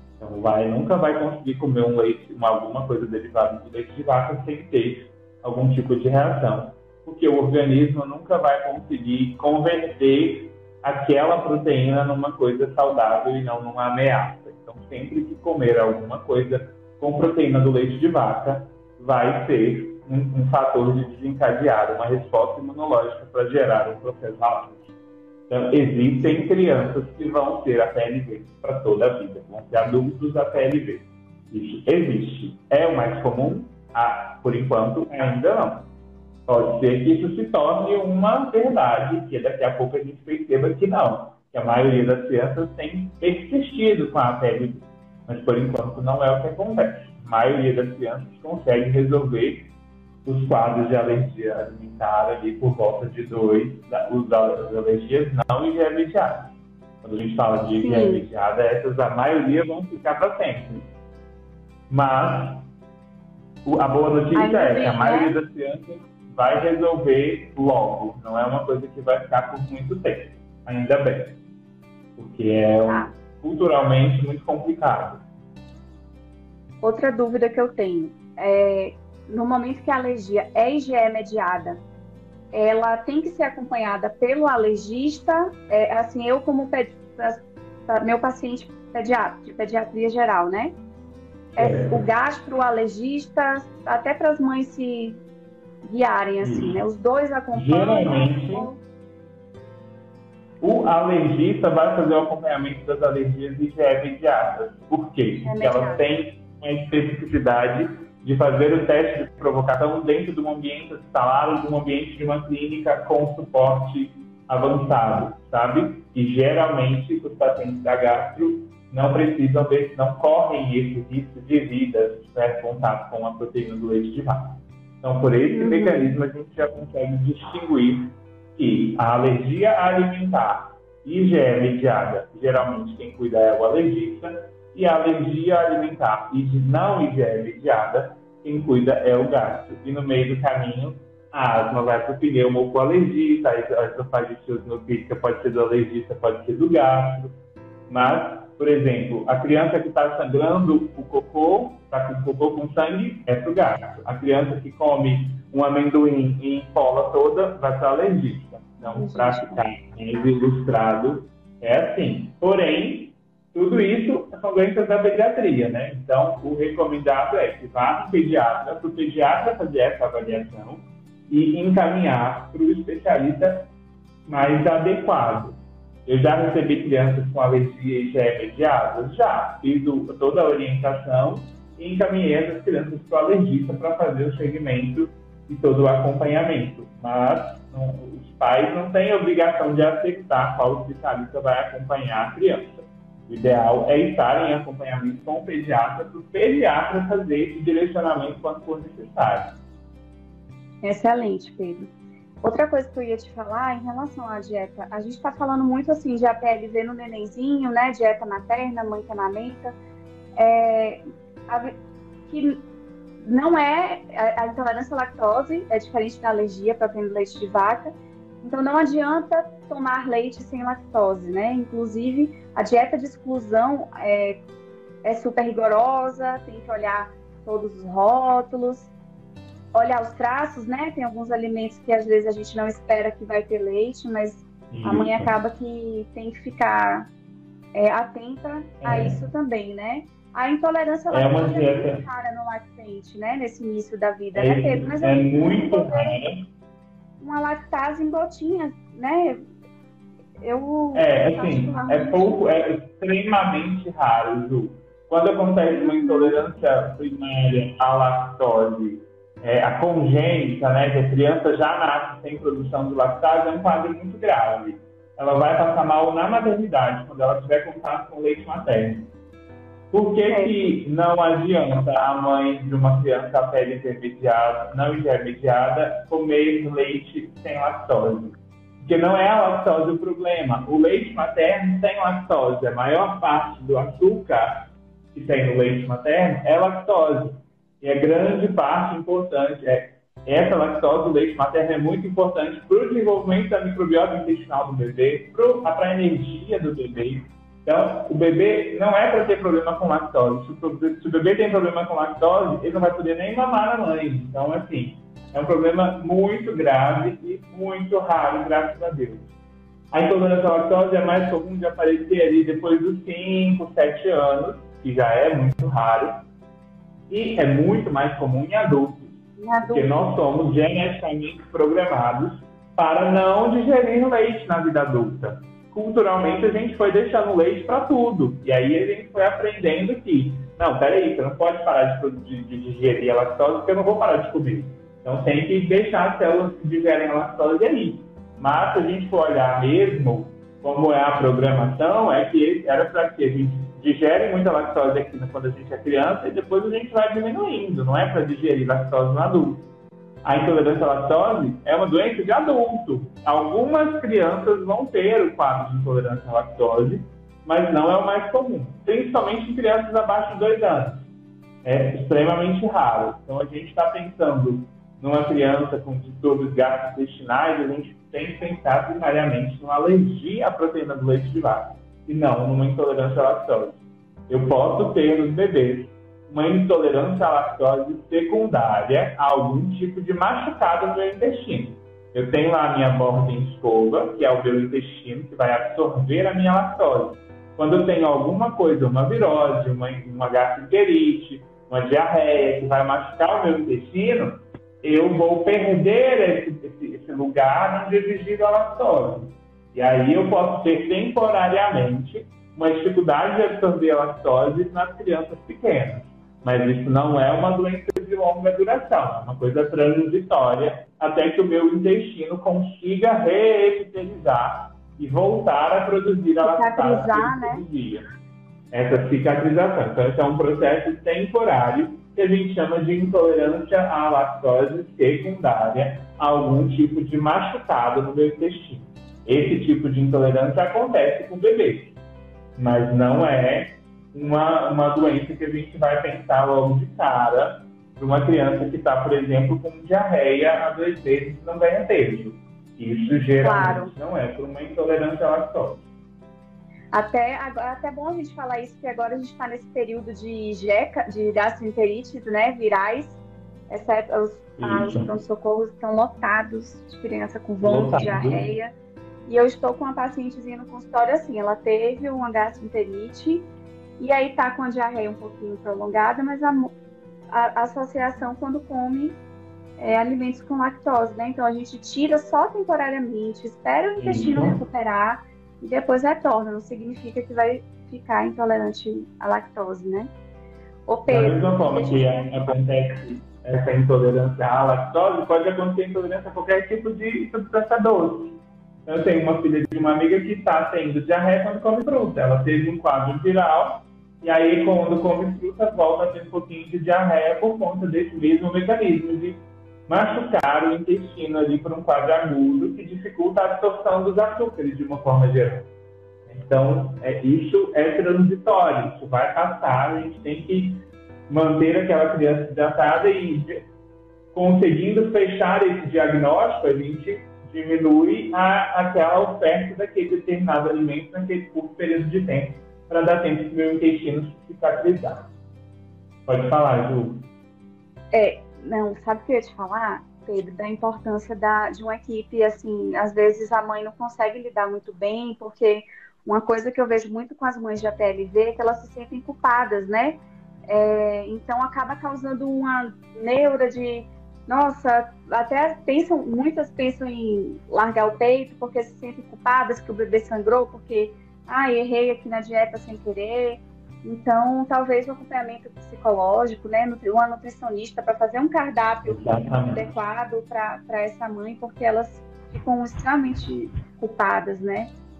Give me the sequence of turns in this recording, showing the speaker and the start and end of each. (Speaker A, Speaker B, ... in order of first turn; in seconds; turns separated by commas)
Speaker A: 0.2-24.9, Speaker A: 25.5-35.9, Speaker A: 36.5-49.7, Speaker A: 50.2-60.9, Speaker B: 57.8-58.2, Speaker A: 61.9-62.7, Speaker A: 63.6-71.4, Speaker B: 64.3-65.4, Speaker A: 72.2-75.2, Speaker B: 72.8-73.1, Speaker B: 76.8-81.8, Speaker B: 82.5-90.8, Speaker A: 91.5-92.0, Speaker B: 91.5-95.2, Speaker B: 95.8-98.8, Speaker A: 96.4-96.8, Speaker A: 97.5-98.7, Speaker A: 100.6-147.3, Speaker B: 105.4-106.0, Speaker B: 125.5-126.2, Speaker A: 147.9-173.7, Speaker B: 158.8-159.6, Speaker A: 174.2-199.6, Speaker B: 200.8-201.9, Speaker B: 202.4-209.7, Speaker B: 210.4-211.7, Speaker B: 212.3-212.6, Speaker B: 213.2-224.4, Speaker B: 225.0-228.9, Speaker B: 229.7-237.1, Speaker A: 234.7-235.3, Speaker B: 237.7-246.2, Speaker A: 238.8-239.2, Speaker A: 241.1-242.0, Speaker A: 244.3-246.4, Speaker B: 247.2-249.4, Speaker B: 250.4-252.4, Speaker A: 250.9-269.1, Speaker B: 255.7-256.4, Speaker A: 269.9-309.3, Speaker B: 270.3-270.8, Speaker A: 309.9-316.2, Speaker A: 317.1-349.6, Speaker B: 319.4-319.9, Speaker A: 350.2-361.1, Speaker A: 361.6-418.1, Speaker B: 416.4-417.6, Speaker A: 418.7-432.0, Speaker A: 432.6-445.9, Speaker B: 443.4-443.9, Speaker B: 446.9-453.2, Speaker B: 453.7-458.7, Speaker A: 454.6-455.1, Speaker A: 457.6-458.5, Speaker B: 459.3-463.5, Speaker B: 464.0-466.7, Speaker B: 467.3-469.2, Speaker B: 469.8-480.1, Speaker A: 474.0-474.6, Speaker B: 480.9-482.3, Speaker A: 481.1-505.7, Speaker A: 506.3-513.6, Speaker A: 514.3-525.3, Speaker A: 526.2-527.3, Speaker B: 528.1-564.9, Speaker A: 559.0-559.9